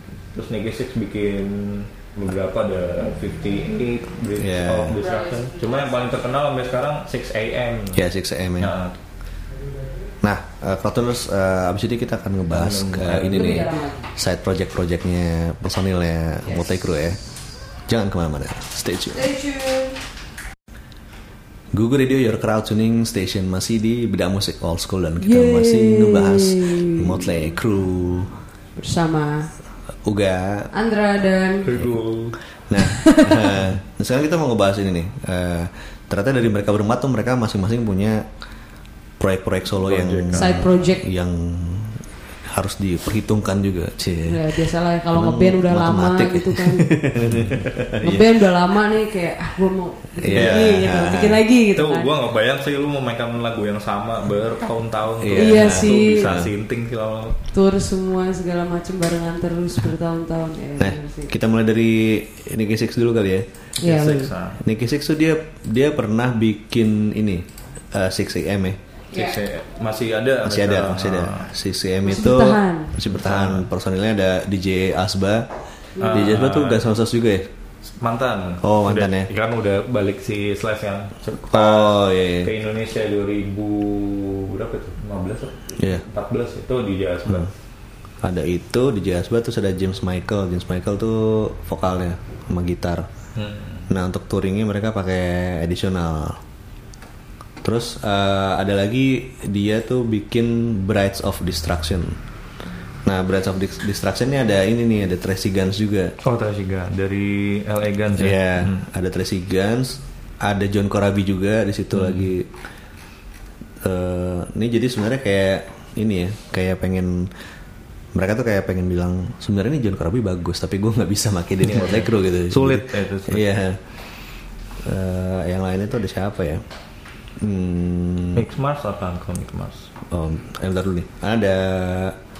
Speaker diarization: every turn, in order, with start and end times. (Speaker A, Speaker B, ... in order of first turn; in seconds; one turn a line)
Speaker A: 0.3-8.0
Speaker B: 4.4-5.0
Speaker C: 5.0-5.9
Speaker B: 7.9-8.7
Speaker A: 8.6-9.0
Speaker B: 10.2-17.2
Speaker A: 12.5-13.7
Speaker C: 13.3-14.1
Speaker B: 17.9-19.3
Speaker C: 19.1-20.0
Speaker B: 21.7-28.4
Speaker C: 25.2-27.4
Speaker C: 28.8-29.5
Speaker B: 30.0-30.7
Speaker C: 30.7-31.7
Speaker A: 31.6-32.3
Speaker B: 32.7-38.3
Speaker C: 32.8-33.6
Speaker B: 39.2-44.6
Speaker A: 39.8-40.6
Speaker C: 40.3-41.0
Speaker C: 44.2-46.9
Speaker B: 45.1-48.4
Speaker C: 48.0-52.1
Speaker B: 50.2-51.4
Speaker A: 50.3-50.8
Speaker A: 51.7-57.4
Speaker B: 55.2-56.5
Speaker C: 55.3-56.4
Speaker C: 57.5-61.3
Speaker B: 60.8-63.5
Speaker A: 63.8-64.6
Speaker C: 63.8-64.3
Speaker B: 64.6-68.8
Speaker A: 69.1-71.5
Speaker B: 70.4-75.5
Speaker C: 72.0-72.9
Speaker A: 73.1-73.7
Speaker A: 76.0-76.9
Speaker B: 76.1-77.5
Speaker A: 78.0-87.5
Speaker B: 78.6-79.3
Speaker B: 81.5-82.5
Speaker B: 85.8-86.0
Speaker B: 88.2-93.1
Speaker A: 93.3-93.9
Speaker B: 93.9-96.4
Speaker B: 97.6-102.2
Speaker B: 103.0-106.1
Speaker A: 106.2-108.8
Speaker B: 108.2-112.5
Speaker A: 111.9-112.3
Speaker B: 113.8-117.3
Speaker B: 118.1-123.8
Speaker A: 121.6-123.5
Speaker B: 124.8-126.6
Speaker B: 127.4-128.4
Speaker A: 128.3-129.9
Speaker B: 130.1-132.2